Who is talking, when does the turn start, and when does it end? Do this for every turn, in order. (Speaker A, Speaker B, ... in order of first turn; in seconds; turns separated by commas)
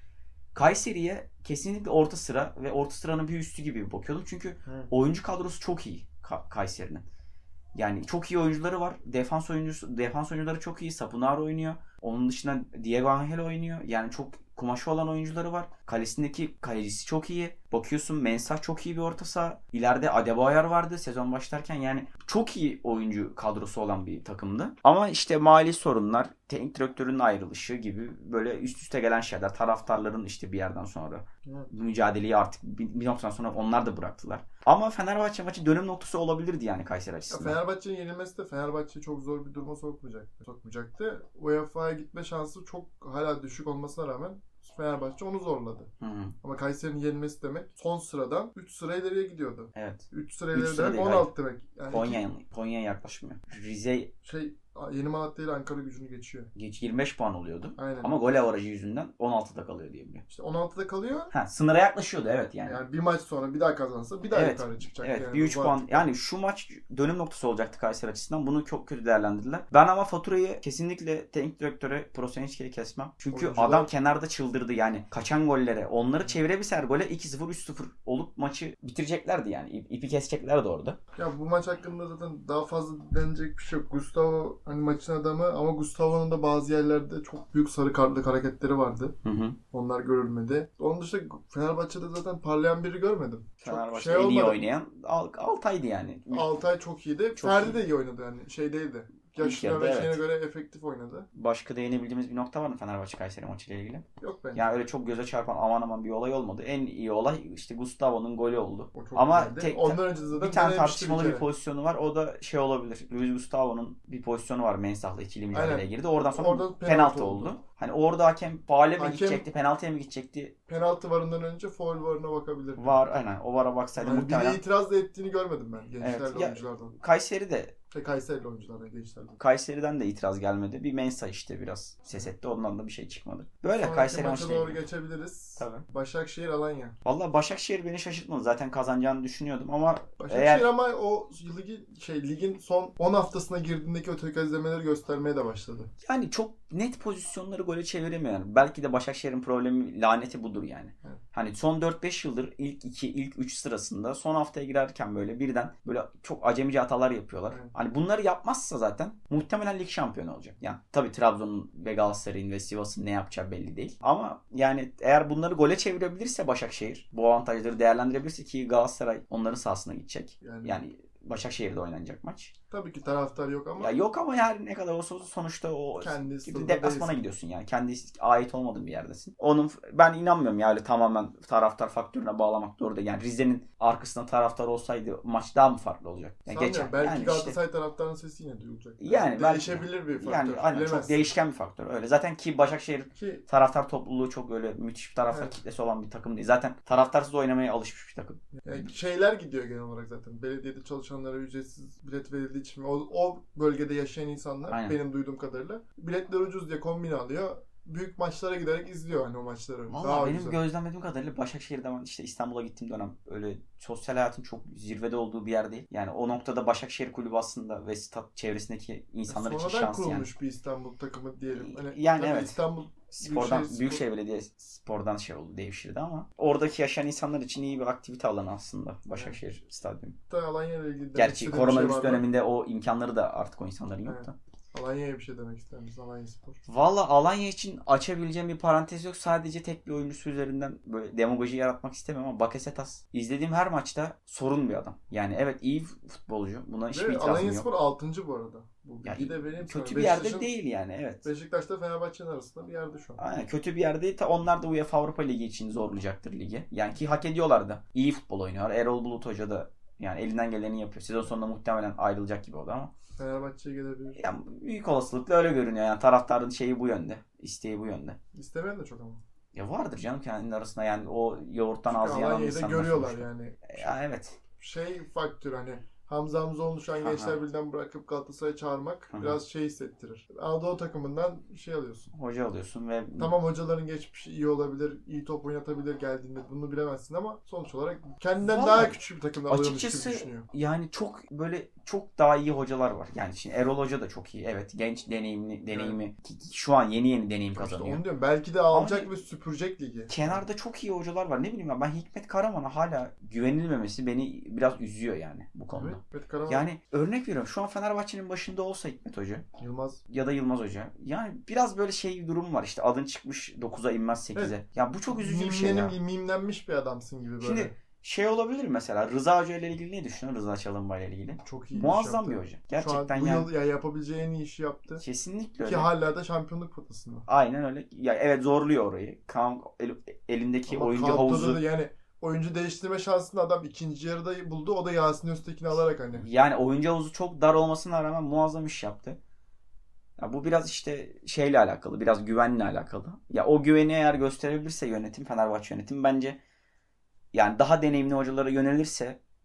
Speaker A: 0.5-7.0, Speaker B: 4.6-4.9, Speaker A: 7.8-37.6, Speaker B: 37.3-45.9, Speaker A: 46.0-46.3, Speaker B: 46.4-52.2, Speaker A: 49.8-51.3, Speaker A: 51.9-54.1, Speaker B: 54.2-56.5, Speaker A: 56.6-60.2, Speaker B: 57.8-58.4, Speaker B: 60.3-61.3, Speaker A: 61.3-62.8, Speaker B: 62.6-66.1, Speaker A: 64.3-81.0, Speaker B: 73.3-73.9, Speaker B: 81.2-89.1, Speaker A: 89.2-89.6, Speaker B: 89.7-94.6, Speaker A: 93.6-96.5, Speaker B: 96.3-101.3, Speaker A: 97.4-97.8, Speaker A: 99.4-100.2, Speaker A: 101.3-120.5, Speaker B: 104.2-104.7, Speaker B: 108.9-111.5, Speaker B: 115.5-117.5, Speaker B: 119.0-119.4, Speaker B: 120.7-123.0, Speaker A: 122.8-124.6, Speaker B: 124.0-126.9, Speaker A: 126.0-127.7, Speaker B: 127.9-129.4, Speaker A: 129.4-134.8, Speaker B: 133.7-137.0, Speaker A: 135.6-135.8, Speaker A: 137.0-140.7, Speaker B: 140.2-145.9, Speaker A: 146.0-172.5, Speaker B: 157.5-157.7, Speaker B: 170.4-170.8, Speaker B: 172.7-174.0, Speaker A: 173.8-187.6, Speaker B: 176.0-177.2, Speaker B: 186.5-191.3, Speaker A: 189.0-198.9, Speaker B: 193.1-193.4, Speaker B: 195.3-195.6, Speaker B: 198.6-210.6, Speaker A: 204.7-204.9, Speaker A: 209.9-220.3, Speaker B: 219.3-224.0, Speaker A: 221.5-230.2, Speaker B: 229.1-229.4, Speaker B: 230.3-232.3, Speaker A: 231.1-234.3, Speaker B: 234.0-236.6, Speaker A: 236.7-247.7, Speaker B: 246.9-250.5, Speaker A: 249.0-251.2, Speaker B: 251.2-253.2, Speaker A: 253.2-262.9, Speaker B: 263.2-264.2, Speaker A: 264.1-268.2, Speaker B: 268.4-269.2, Speaker A: 269.5-274.4, Speaker B: 271.9-273.9, Speaker B: 274.6-282.1, Speaker A: 277.0-277.4, Speaker A: 279.1-279.4, Speaker A: 282.1-283.4, Speaker B: 283.2-290.5, Speaker A: 288.4-289.0, Speaker A: 289.5-298.0, Speaker B: 295.7-296.0, Speaker B: 297.5-300.4, Speaker A: 298.7-299.1, Speaker A: 300.1-309.4, Speaker B: 305.7-306.7, Speaker B: 309.6-310.0, Speaker A: 310.1-315.9, Speaker B: 315.1-317.8, Speaker A: 317.4-323.5, Speaker B: 321.4-325.0, Speaker A: 325.0-325.9, Speaker B: 325.6-327.3, Speaker A: 327.3-331.6, Speaker B: 330.7-336.2, Speaker A: 336.1-339.2, Speaker A: 340.2-346.4, Speaker A: 347.3-349.2